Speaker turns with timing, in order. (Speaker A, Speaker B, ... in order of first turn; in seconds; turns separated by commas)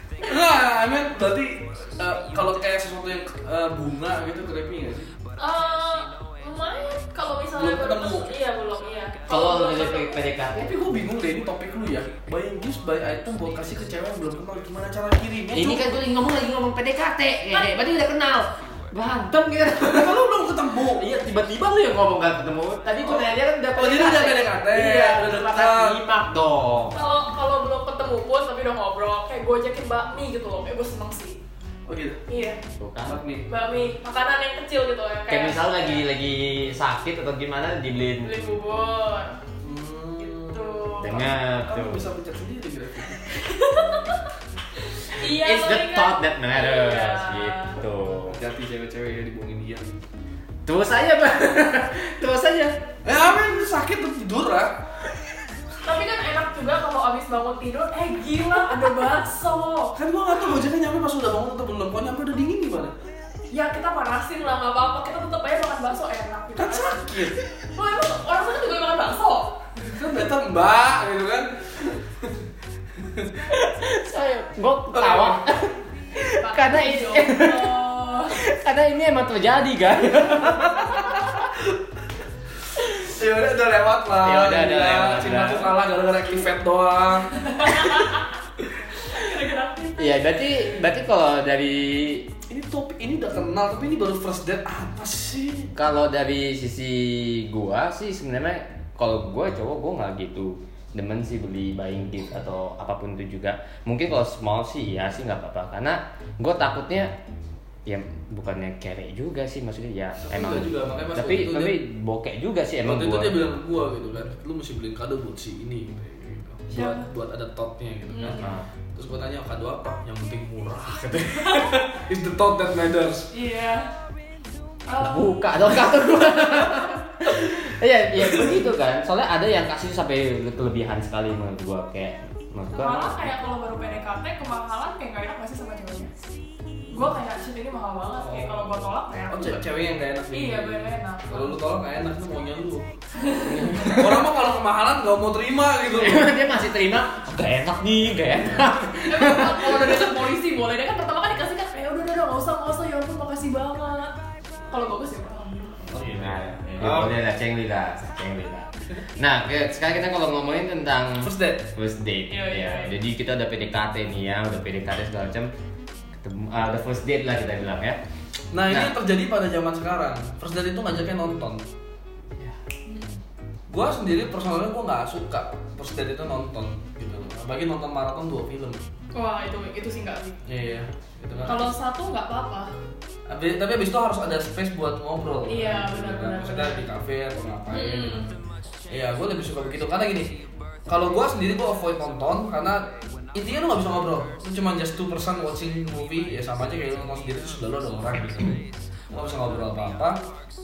Speaker A: 0.2-5.1, Speaker B: 5.4-10.2, Speaker A: 7.5-8.3, Speaker C: 9.3-10.7, Speaker A: 10.6-15.9, Speaker C: 15.5-20.2, Speaker B: 17.5-17.8, Speaker A: 19.8-21.1, Speaker C: 20.9-27.0, Speaker A: 23.0-26.0, Speaker B: 26.9-31.4, Speaker A: 31.9-32.2, Speaker B: 32.3-32.6, Speaker C: 32.8-33.2, Speaker A: 33.1-33.4, Speaker B: 33.5-36.0, Speaker C: 35.3-38.3, Speaker B: 38.2-39.4, Speaker A: 39.6-40.9, Speaker B: 40.2-41.3, Speaker C: 41.0-42.0, Speaker A: 41.6-43.2, Speaker B: 43.3-44.3, Speaker B: 44.8-47.8, Speaker C: 45.2-48.4, Speaker A: 48.3-49.9, Speaker C: 50.6-52.8, Speaker A: 53.0-54.8, Speaker B: 55.8-60.0, Speaker A: 60.0-62.9, Speaker B: 63.5-67.1, Speaker A: 66.6-67.4, Speaker B: 67.7-69.7, Speaker A: 69.8-72.3, Speaker A: 73.0-73.5, Speaker C: 73.5-77.8, Speaker A: 74.9-75.4, Speaker B: 76.3-78.4, Speaker C: 78.3-81.1, Speaker A: 80.2-81.7, Speaker A: 82.8-87.7, Speaker C: 84.2-85.7, Speaker B: 87.3-88.3, Speaker B: 89.0-90.3, Speaker C: 90.0-92.3, Speaker A: 92.5-95.7, Speaker C: 95.7-107.1, Speaker C: 107.8-113.4, Speaker A: 110.2-111.8, Speaker A: 112.8-123.3, Speaker B: 116.7-117.1, Speaker B: 118.1-118.5, Speaker C: 118.2-118.7, Speaker B: 121.3-121.8, Speaker B: 123.3-123.9, Speaker B: 124.9-125.3, Speaker C: 125.0-133.3, Speaker B: 132.7-136.1, Speaker B: 136.9-139.6, Speaker A: 138.1-142.9, Speaker B: 140.3-141.6, Speaker B: 143.1-144.0, Speaker C: 143.5-144.2, Speaker A: 143.6-146.3, Speaker C: 145.9-150.1, Speaker B: 149.0-154.2, Speaker B: 154.7-155.9, Speaker A: 155.9-157.2, Speaker C: 156.1-165.5, Speaker A: 161.2-161.7, Speaker B: 162.3-162.9, Speaker C: 166.2-168.0, Speaker A: 168.5-171.6, Speaker C: 168.7-168.9, Speaker B: 172.8-173.1, Speaker A: 173.7-178.8, Speaker B: 179.1-180.4, Speaker A: 180.4-181.7, Speaker B: 181.4-182.7, Speaker A: 183.3-188.3, Speaker B: 185.4-186.8, Speaker B: 187.7-188.3, Speaker A: 188.9-200.2